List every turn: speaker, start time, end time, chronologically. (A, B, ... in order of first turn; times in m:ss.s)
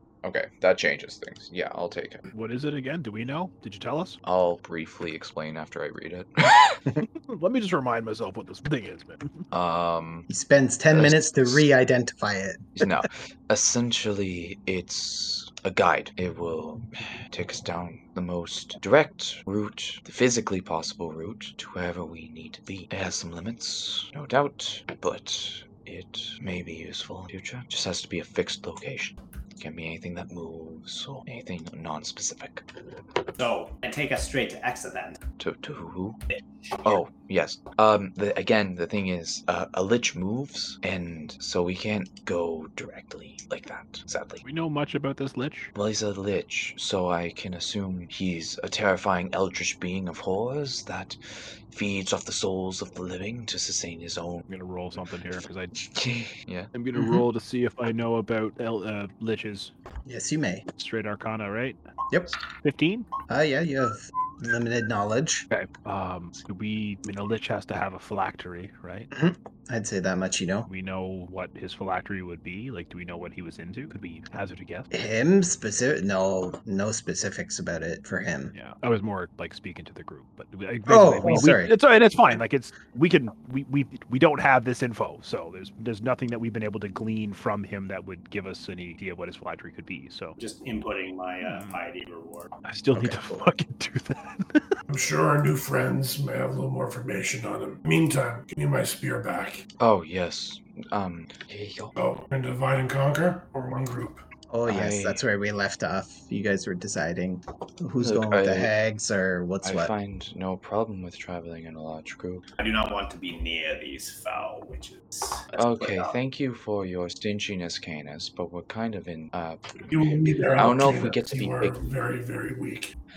0:00.2-0:02.3 A
0:02.3-0:04.2 B
0:04.2-0:06.8 A
0:07.3-0:09.4 B
0:09.5-0:10.3 A
0:10.3-0:12.8 C
0:10.9-0:11.7 A
0:12.8-0:32.7 A
0:33.4-0:35.2 D
0:35.4-0:36.2 A
0:36.3-0:37.0 D
0:36.8-0:44.4 A
0:44.4-0:45.7 B
0:45.8-0:51.2 A
0:51.7-0:54.4 A
0:54.5-0:55.7 B
0:55.8-0:56.7 A
0:56.7-0:59.7 B
1:00.1-1:00.6 C
1:00.8-1:01.8 B
1:02.6-1:03.1 B
1:03.3-1:05.5 C
1:05.5-1:09.1 B
1:09.1-1:10.7 C
1:10.7-1:14.9 B
1:14.9-1:18.5 C
1:18.5-1:30.4 B
1:20.9-1:21.8 C
1:30.4-1:32.6 D
1:31.4-1:31.8 B
1:32.6-1:34.6 B
1:34.9-1:39.6 E
1:39.8-1:41.9 A
1:42.0-1:44.2 E
1:44.5-1:49.9 C
1:44.7-1:45.2 A
1:48.0-1:48.7 A
1:49.6-1:52.5 A
1:52.6-1:56.2 D
1:55.6-2:01.8 A
1:59.9-2:02.9 E